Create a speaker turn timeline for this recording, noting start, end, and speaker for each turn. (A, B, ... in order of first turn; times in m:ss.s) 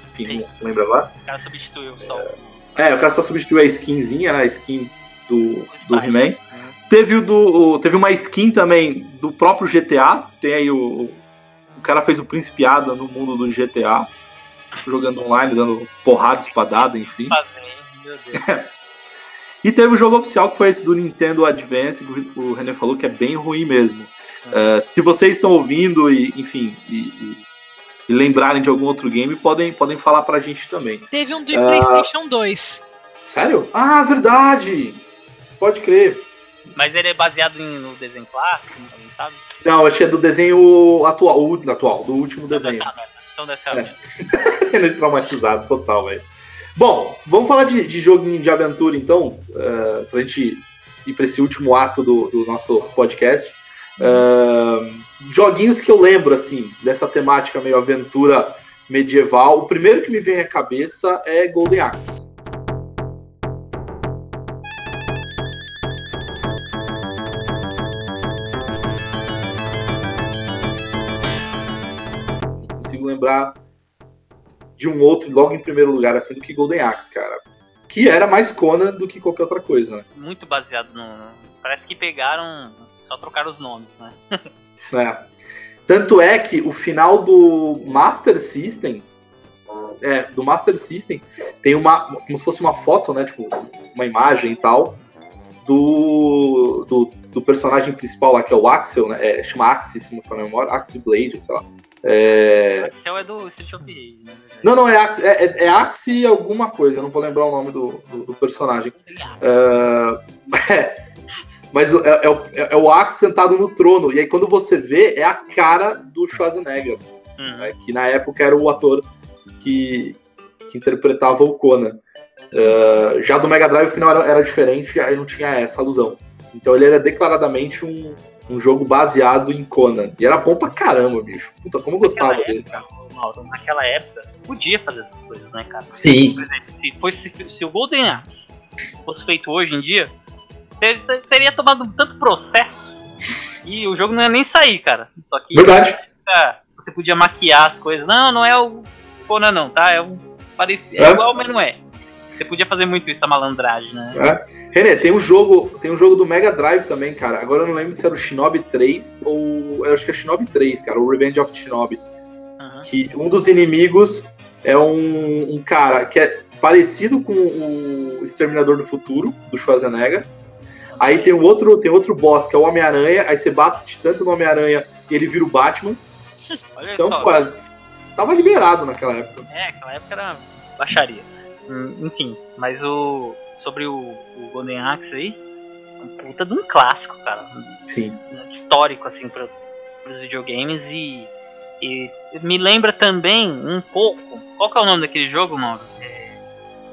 0:00.2-0:01.1 A
0:01.2-0:02.7 B
0:02.0-0:11.2 A
0:05.7-0:06.8 B
0:11.7-0:14.1 A
0:14.8-0:17.4 A
0:16.8-0:18.5 B
0:18.4-0:18.7 A
0:19.6-0:27.4 A
0:24.5-0:24.7 B
0:28.1-0:32.1 A
0:31.1-0:32.8 C
0:33.3-0:35.0 A
0:35.6-0:36.3 A
0:36.8-0:39.4 B
0:39.6-0:42.9 A
0:42.5-0:44.0 B
0:43.7-1:02.3 A
0:54.0-0:54.2 C
1:12.6-1:13.6 A
1:14.8-1:20.0 A
1:20.2-1:24.4 B
1:24.9-1:25.3 A
1:25.9-1:29.1 A
1:30.0-1:35.0 A
1:35.6-1:42.9 A
1:42.8-1:44.8 B
1:44.6-1:51.0 A
1:48.7-1:49.5 B
1:51.7-1:57.1 A
1:57.4-1:57.7 B
1:57.6-1:59.1 A
1:59.6-2:02.0 A
2:02.5-2:12.8 A
2:12.0-2:18.5 B
2:15.9-2:16.4 A
2:19.0-2:20.1 B
2:20.8-2:23.0 B
2:23.6-2:31.8 B
2:25.5-2:26.0 A
2:31.0-2:31.2 A
2:32.4-2:34.2 B
2:34.1-2:42.0 A
2:42.6-2:42.9 B
2:42.8-2:50.3 A
2:50.9-2:51.4 B
2:51.0-2:56.0 A
2:56.8-2:57.6 B
2:57.0-2:57.6 A
2:58.2-2:59.5 A
2:59.5-3:05.4 B
3:06.0-3:07.8 B
3:07.9-3:08.2 A
3:08.3-3:16.4 B